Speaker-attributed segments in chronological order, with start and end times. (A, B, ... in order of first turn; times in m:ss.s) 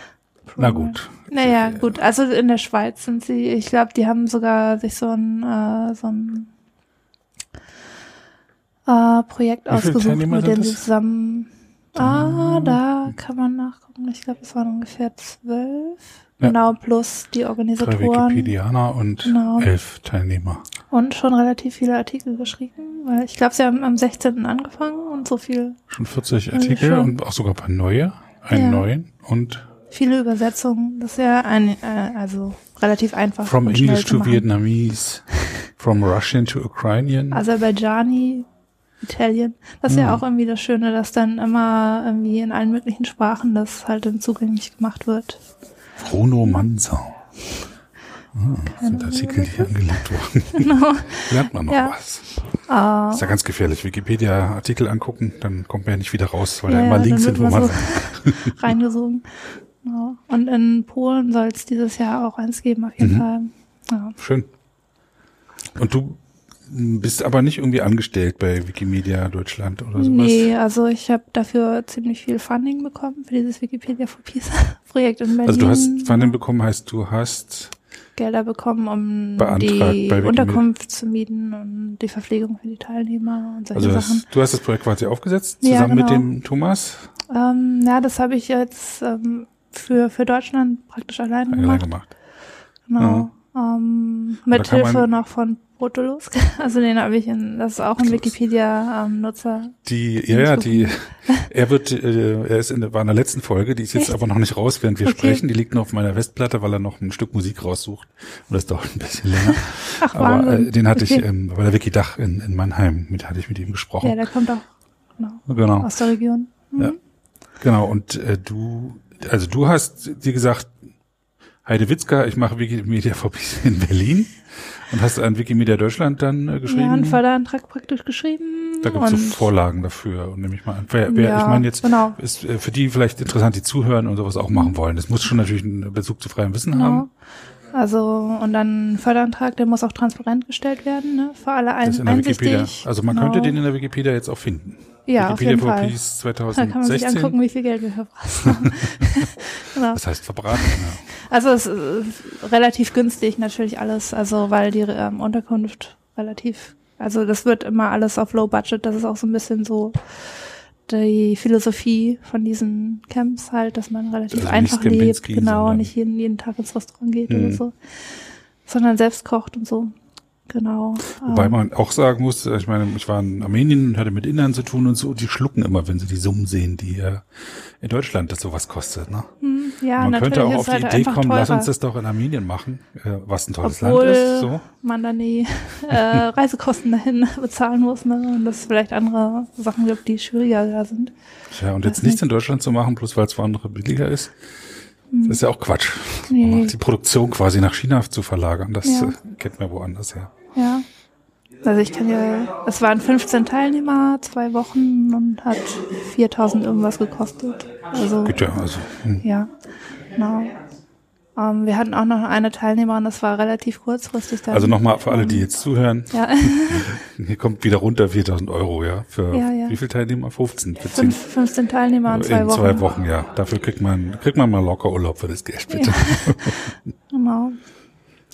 0:00.4-0:06.5 A
0:00.6-0:02.0 B
0:08.9-0:18.5 A
0:09.7-0:10.8 B
0:12.0-0:13.1 B
0:17.8-0:20.6 B
0:19.2-0:19.7 A
0:20.9-0:25.8 A
0:25.9-0:29.7 B
0:26.5-0:27.1 A
0:28.5-0:28.8 A
0:29.9-0:34.4 A
0:33.4-0:37.4 B
0:37.3-0:38.5 A
0:39.0-0:45.4 A
0:39.9-0:40.2 B
0:46.0-0:47.2 B
0:48.3-0:52.3 B
0:48.7-0:49.7 A
0:50.5-0:52.0 A
0:52.6-0:53.2 A
0:53.1-0:58.7 B
0:56.7-1:04.2 A
1:03.0-1:03.3 B
1:04.2-1:04.5 B
1:05.7-1:10.5 B
1:09.9-1:16.3 A
1:15.4-1:17.8 B
1:18.2-1:24.2 A
1:19.4-1:20.6 B
1:23.7-1:27.1 B
1:25.6-1:26.3 A
1:27.3-1:31.9 A
1:31.5-1:32.1 B
1:32.9-1:39.8 A
1:33.0-1:33.3 B
1:34.5-1:35.1 B
1:38.0-1:38.3 B
1:39.8-1:54.2 B
1:40.3-1:41.5 A
1:45.0-1:45.4 A
1:49.5-1:51.2 A
1:54.0-1:57.0 A
1:55.5-1:55.9 B
1:57.6-2:00.7 B
2:01.6-2:07.2 B
2:06.6-2:09.4 A
2:08.8-2:17.0 B
2:11.1-2:12.2 A
2:16.7-2:17.1 A
2:17.7-2:23.6 A
2:21.8-2:27.4 B
2:25.1-2:26.0 A
2:26.5-2:47.8 A
2:28.4-2:29.3 B
2:29.9-2:31.1 B
2:44.3-2:45.9 B
2:47.3-2:47.6 B
2:48.6-2:49.9 A
2:50.5-2:51.6 A
2:51.2-2:59.3 B
2:59.4-3:01.7 A
3:00.0-3:04.6 B
3:03.6-3:11.1 A
3:11.5-3:14.4 B
3:11.8-3:12.2 A
3:15.1-3:15.4 A
3:15.3-3:20.3 B
3:16.3-3:16.7 A
3:18.8-3:19.2 A
3:20.5-3:20.8 A
3:21.6-3:28.5 A
3:28.2-3:29.2 B
3:29.2-3:29.5 A
3:30.1-3:30.5 A
3:31.4-3:35.4 A
3:34.5-3:41.2 B
3:36.1-3:37.0 A
3:39.3-3:39.8 A
3:40.9-3:42.9 A
3:42.1-3:46.8 B
3:45.7-3:47.6 A